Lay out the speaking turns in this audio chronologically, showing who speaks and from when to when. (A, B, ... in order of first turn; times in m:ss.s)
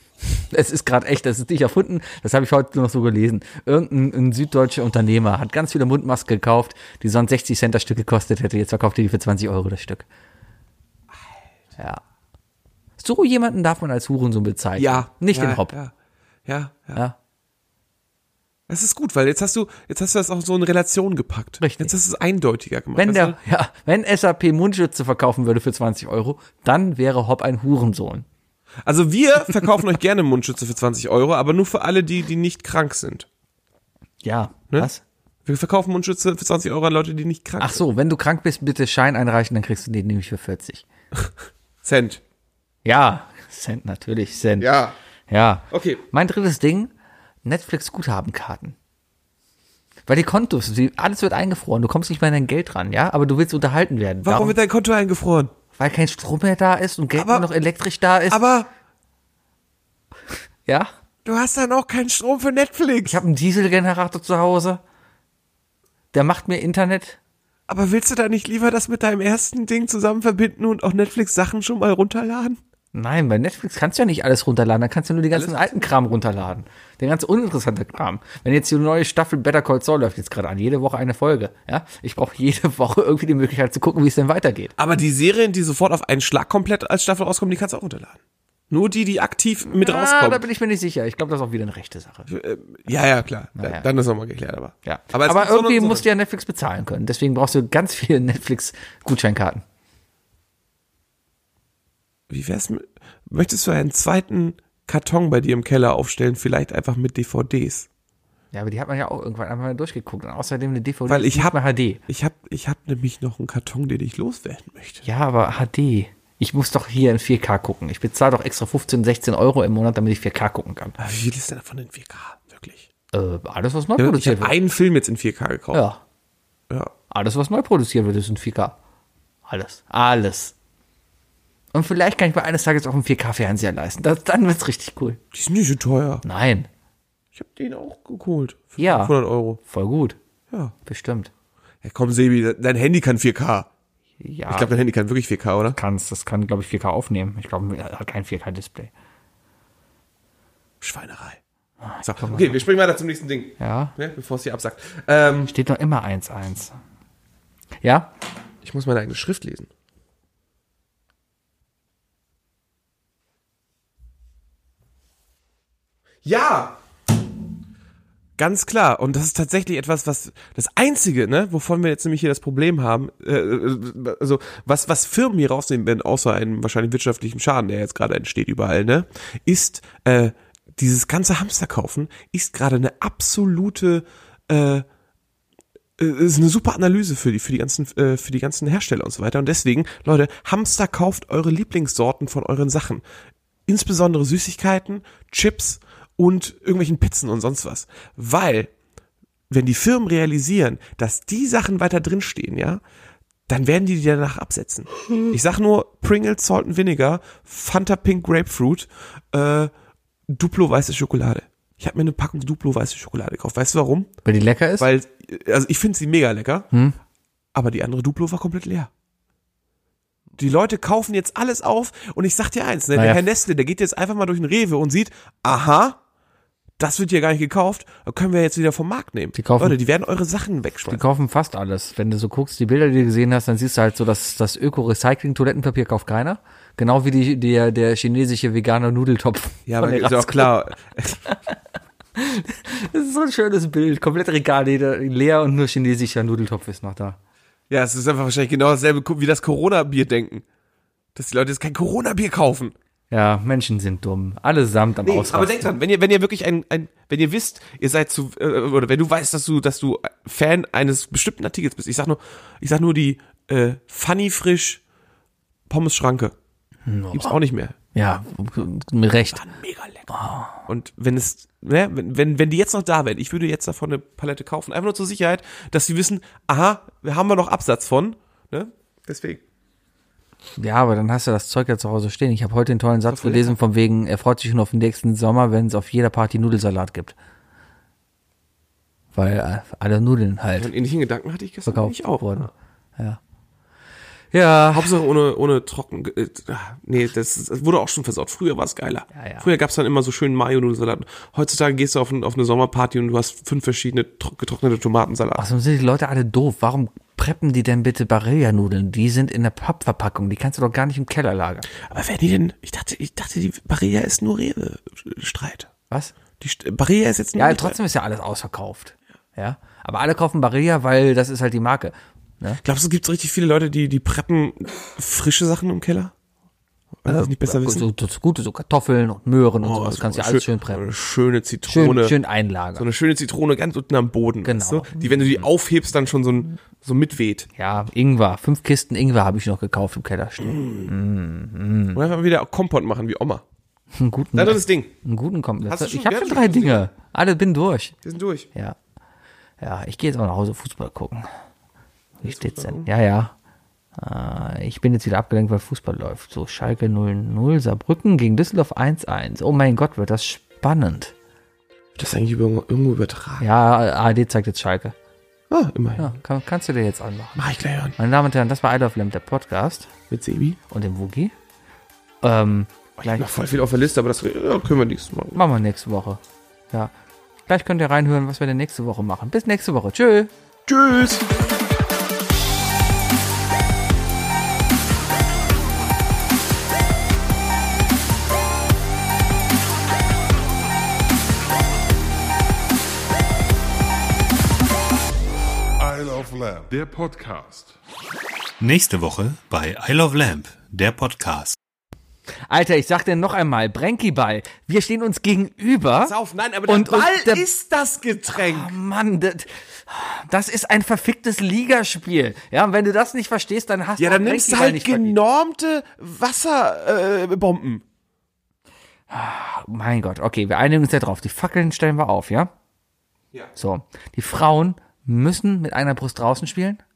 0:00.3-0:10.0 A
0:13.0-0:15.7 A
0:14.8-0:15.9 B
0:16.4-0:17.0 B
0:18.7-0:23.4 B
0:21.6-0:21.9 A
0:23.0-0:28.3 A
0:28.8-0:33.3 B
0:34.2-0:35.0 A
0:35.4-0:37.8 B
0:37.6-0:40.8 A
0:41.8-0:42.2 B
0:42.8-0:44.7 A
0:44.6-0:45.0 B
0:45.3-0:46.9 A
0:45.7-0:46.0 B
0:47.4-0:48.7 A
0:50.1-0:54.6 A
0:54.2-0:55.5 B
0:55.8-0:58.4 A
0:57.2-0:57.5 B
0:58.3-0:58.7 B
1:00.6-1:00.9 A
1:01.2-1:03.2 B
1:03.0-1:04.8 A
1:06.1-1:07.2 A
1:07.7-1:12.6 B
1:12.9-1:24.7 A
1:15.3-1:15.6 B
1:24.8-1:28.2 B
1:28.7-1:30.4 B
1:29.7-1:32.3 A
1:32.3-1:36.1 B
1:33.6-1:33.8 A
1:34.8-1:39.6 A
1:42.3-1:47.9 B
1:48.5-1:52.0 A
1:51.1-1:51.6 B
1:52.1-1:55.0 B
1:55.0-2:01.0 A
2:01.0-2:02.9 B
2:03.1-2:04.6 A
2:04.0-2:05.8 B
2:05.7-2:06.0 A
2:07.1-2:08.8 A
2:09.5-2:10.5 A
2:11.7-2:15.2 A
2:15.3-2:16.2 B
2:16.2-2:16.7 A
2:17.4-2:19.6 B
2:18.8-2:20.2 A
2:20.8-2:21.3 A
2:21.8-2:23.7 B
2:24.2-2:24.7 A
2:24.5-2:25.8 B
2:25.7-2:28.9 A
2:30.8-2:31.4 B
2:31.8-2:32.6 A
2:32.0-2:35.5 B
2:33.6-2:33.9 A
2:35.5-2:36.8 A
2:37.8-2:38.1 A
2:38.6-2:39.7 B
2:46.2-2:46.8 B
2:48.4-3:04.8 B
3:06.0-3:13.0 B
3:13.7-3:18.7 B
3:19.5-3:22.8 B
3:23.5-3:29.7 B
3:30.3-3:34.1 B
3:34.2-3:34.9 A
3:34.8-3:36.7 B
3:37.5-3:38.9 B
3:40.4-3:46.0 B
3:43.0-3:43.3 A
3:46.8-3:51.0 B
3:49.4-3:49.8 A
3:50.9-4:00.6 A
3:59.7-4:01.2 B
4:02.2-4:07.2 A
4:07.7-4:10.4 B
4:11.2-4:12.7 B
4:13.1-4:15.7 A
4:15.0-4:24.8 B
4:25.7-4:26.4 B
4:26.8-4:27.4 A
4:27.1-4:27.8 B
4:27.9-4:29.4 A
4:29.3-4:30.1 B
4:30.1-4:30.6 A
4:30.7-4:39.4 B
4:40.6-4:47.2 A
4:43.1-4:43.6 B
4:49.2-4:50.7 A
4:50.6-4:52.5 B
4:51.6-4:53.2 A
4:54.3-4:55.0 A
4:54.7-5:05.4 B
4:59.1-4:59.5 A
5:05.4-5:11.7 A
5:11.8-5:15.7 B
5:16.4-5:17.8 B
5:17.4-5:22.6 A
5:22.6-5:26.1 B
5:27.0-5:27.8 B
5:27.1-5:30.8 A
5:29.6-5:32.2 B
5:31.7-5:32.8 A
5:32.8-5:37.5 B
5:34.4-5:35.4 A
5:37.6-5:42.0 A
5:40.4-5:40.9 B
5:41.9-5:43.4 B
5:43.9-5:47.9 A
5:44.4-5:44.9 B
5:45.6-5:46.9 B
5:48.0-5:48.5 B
5:49.6-5:51.3 A
5:52.2-5:53.3 A
5:52.2-5:52.9 B
5:54.0-6:01.1 A
6:02.0-6:03.4 B
6:03.4-6:04.9 A
6:05.5-6:06.2 B
6:06.0-6:07.4 A
6:07.4-6:08.0 B
6:08.0-6:09.9 A
6:10.1-6:10.6 B
6:10.7-6:11.3 A
6:12.2-6:13.3 A
6:13.2-6:15.4 B
6:15.4-6:16.2 A
6:17.5-6:20.3 A
6:20.7-6:21.3 B
6:35.8-6:37.7 C
6:38.6-6:41.6 D
6:42.5-6:46.1 A
6:46.0-6:48.8 B
6:46.7-6:47.4 A
6:48.3-6:55.2 A
6:54.0-6:57.8 B
6:59.1-7:02.5 A
7:03.6-7:06.8 A